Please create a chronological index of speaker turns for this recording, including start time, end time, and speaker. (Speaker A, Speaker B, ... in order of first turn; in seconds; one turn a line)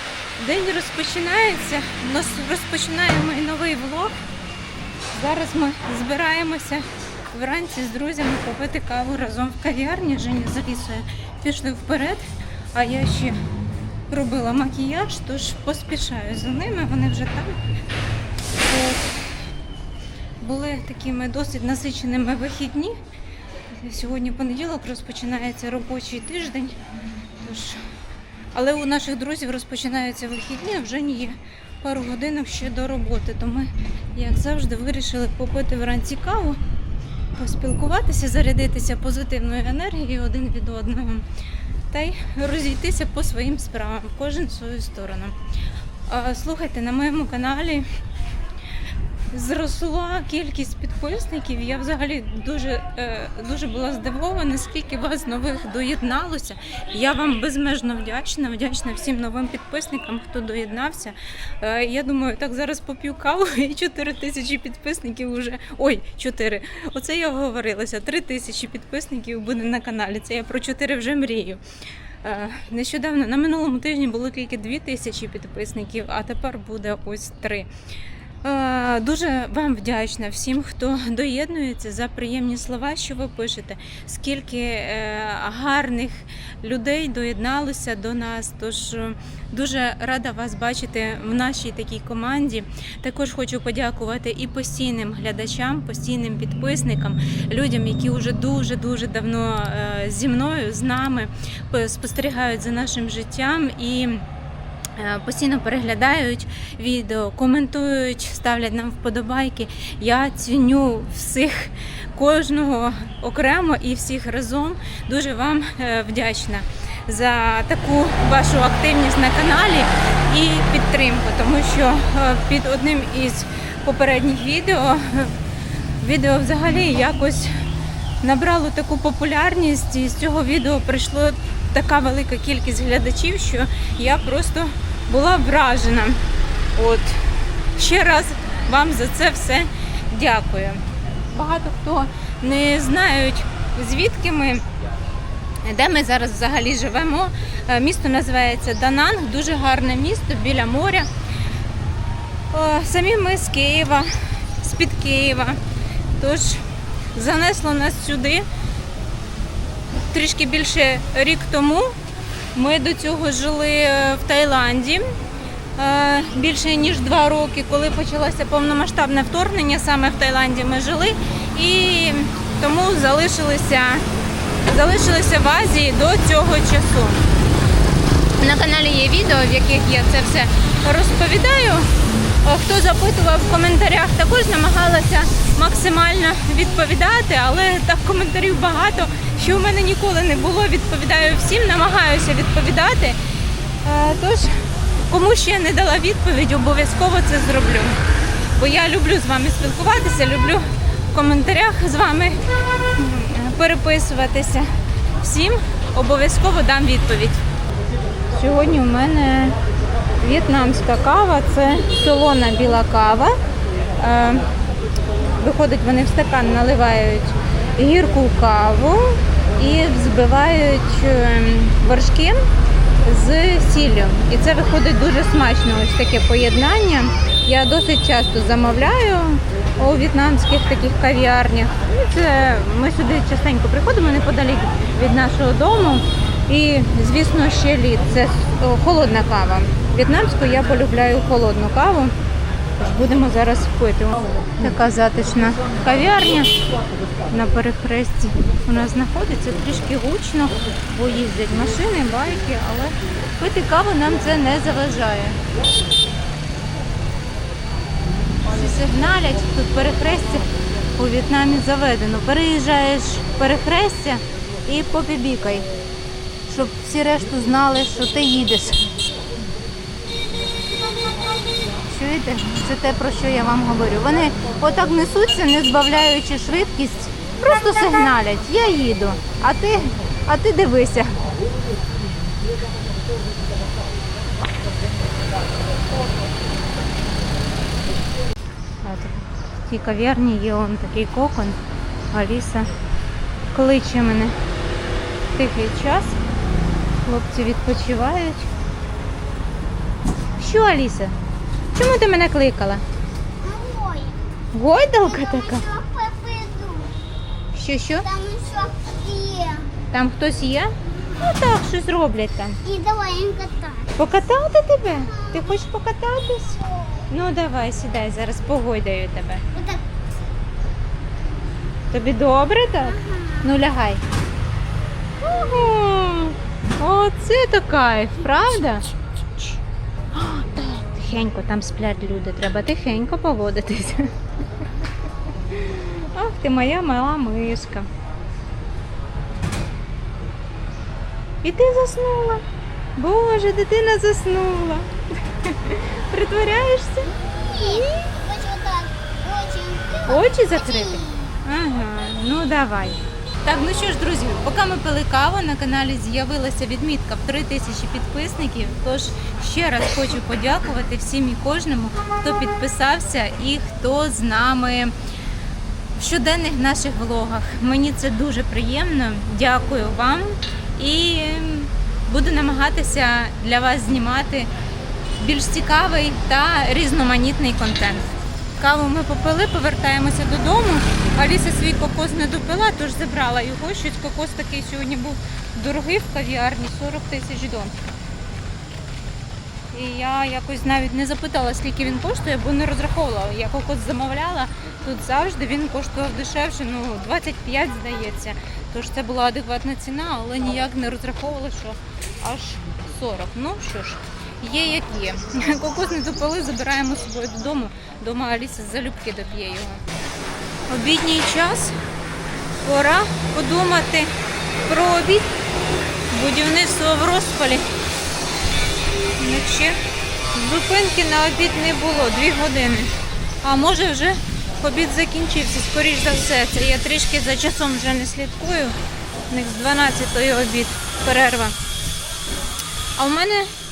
Speaker A: 0.4-4.1
Speaker A: 5.1-12.2
Speaker A: 12.7-13.4
Speaker A: 14.1-17.6
Speaker A: 18.6-19.1
Speaker A: 20.4-23.0
Speaker A: 23.8-26.8
Speaker A: 27.4-27.8
Speaker A: 28.5-36.6
Speaker A: 37.4-41.2
Speaker A: 41.9-45.3
Speaker A: 46.1-47.9
Speaker A: 49.3-71.6
Speaker A: 72.2-77.7
Speaker A: 78.4-104.2
Speaker A: 105.0-125.3
Speaker A: 126.0-127.5
Speaker A: 128.2-136.2
Speaker A: 136.8-137.2
Speaker A: 137.8-144.6
Speaker A: 145.6-151.1
Speaker A: 152.5-155.6
Speaker A: 156.2-156.6
Speaker A: 157.1-158.4
Speaker A: 160.1-161.9
Speaker A: 162.5-165.1
Speaker A: 165.8-174.0
Speaker A: 174.7-177.2
Speaker A: 178.4-181.9
Speaker A: 182.4-193.2
Speaker A: 193.8-194.5
Speaker A: 195.1-198.0
Speaker A: 198.6-202.4
Speaker A: 202.9-204.7
Speaker A: 205.2-207.4
Speaker A: 208.3-209.6
Speaker A: 210.2-213.3
Speaker A: 214.0-214.4
Speaker A: 215.4-222.4
Speaker A: 223.0-242.1
Speaker A: 242.8-246.6
Speaker A: 247.3-255.4
Speaker A: 258.5-265.6
Speaker A: 266.5-268.8
Speaker A: 271.9-281.2
Speaker A: 288.8-291.6
Speaker A: 292.1-292.7
Speaker A: 293.5-294.4
Speaker A: 295.3-296.2
Speaker A: 297.0-298.5
Speaker A: 300.4-301.1
Speaker A: 301.7-302.8
Speaker B: 303.4-304.2
Speaker A: 304.5-305.6
Speaker B: 305.0-306.9
Speaker A: 307.5-308.0
Speaker B: 308.0-309.7
Speaker A: 309.9-312.6
Speaker B: 312.6-313.9
Speaker A: 314.0-316.6
Speaker B: 315.1-315.5
Speaker B: 316.6-317.0
Speaker A: 317.1-319.4
Speaker B: 319.5-319.8
Speaker A: 321.9-324.0
Speaker B: 322.9-323.4
Speaker A: 325.2-329.6
Speaker A: 330.1-334.1
Speaker A: 335.5-337.9
Speaker A: 341.4-342.4
Speaker A: 342.9-347.9
Speaker B: 347.4-351.4
Speaker A: 350.1-364.9
Speaker A: 366.0-374.5
Speaker A: 375.1-387.7
Speaker A: 389.7-409.8
Speaker A: 410.7-411.8
Speaker A: 412.6-414.1
Speaker A: 414.6-415.3
Speaker A: 416.1-417.6
Speaker A: 419.2-419.8
Speaker A: 420.3-422.9
Speaker A: 423.4-428.8
Speaker A: 429.3-431.5
Speaker A: 433.0-433.5